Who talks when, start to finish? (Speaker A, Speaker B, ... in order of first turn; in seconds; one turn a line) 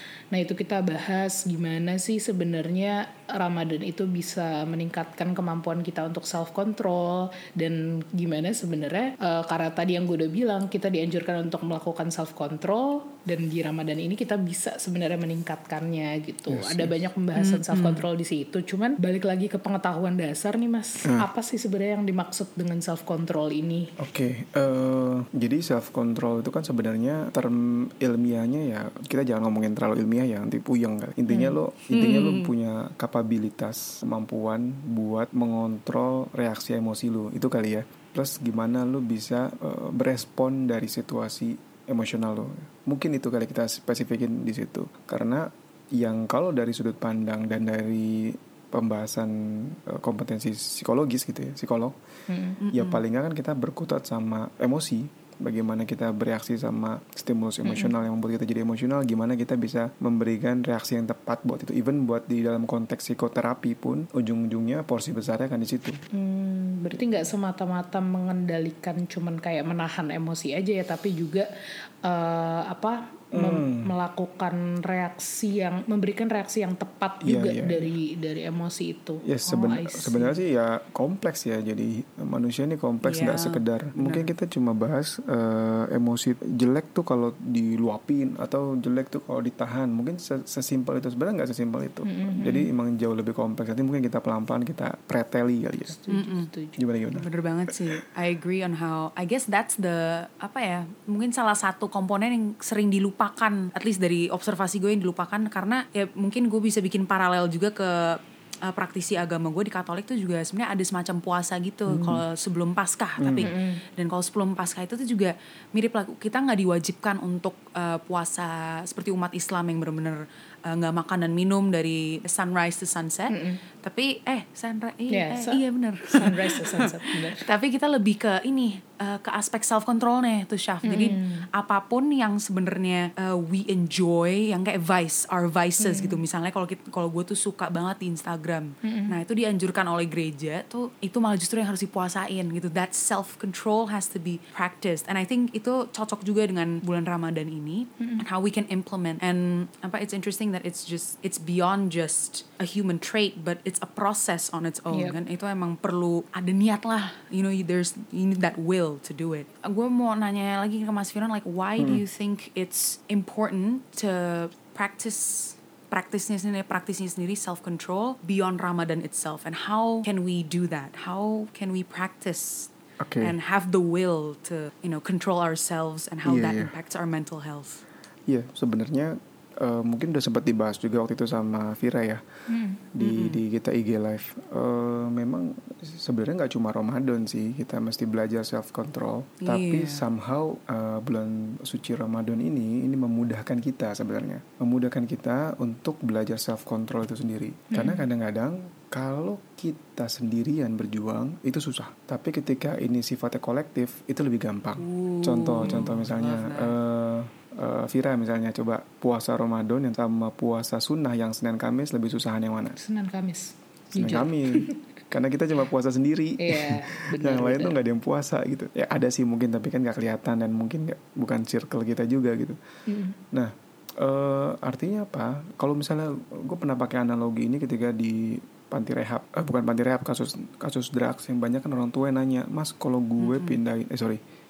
Speaker A: 0.3-23.9
Speaker B: 16.5-16.9
Speaker C: 17.3-18.0
Speaker B: 24.0-52.0
Speaker C: 31.9-32.5
Speaker A: 52.3-52.6
Speaker C: 52.6-53.0
Speaker B: 52.7-66.0
Speaker A: 66.1-71.5
Speaker A: 72.0-80.4
Speaker B: 73.3-73.9
Speaker B: 77.2-77.9
Speaker B: 79.2-96.0
Speaker C: 83.0-84.3
Speaker A: 92.0-92.7
Speaker A: 95.9-96.8
Speaker C: 96.1-96.5
Speaker B: 96.8-97.3
Speaker C: 97.1-172.7
Speaker B: 111.9-112.2
Speaker B: 113.2-113.5
Speaker A: 113.4-113.8
Speaker A: 123.3-123.6
Speaker A: 125.1-125.6
Speaker A: 126.1-127.4
Speaker A: 130.8-131.4
Speaker A: 135.8-136.2
Speaker A: 138.8-139.1
Speaker B: 173.0-173.3
Speaker C: 173.2-177.8
Speaker B: 176.2-176.7
Speaker B: 178.3-182.2
Speaker A: 182.5-182.8
Speaker B: 182.9-212.8
Speaker C: 183.0-183.4
Speaker C: 189.4-190.0
Speaker A: 197.7-198.0
Speaker C: 204.8-206.7
Speaker A: 212.8-214.8
Speaker B: 213.9-222.6
Speaker A: 216.4-217.7
Speaker A: 222.9-223.2
Speaker B: 223.3-234.2
Speaker C: 233.2-233.6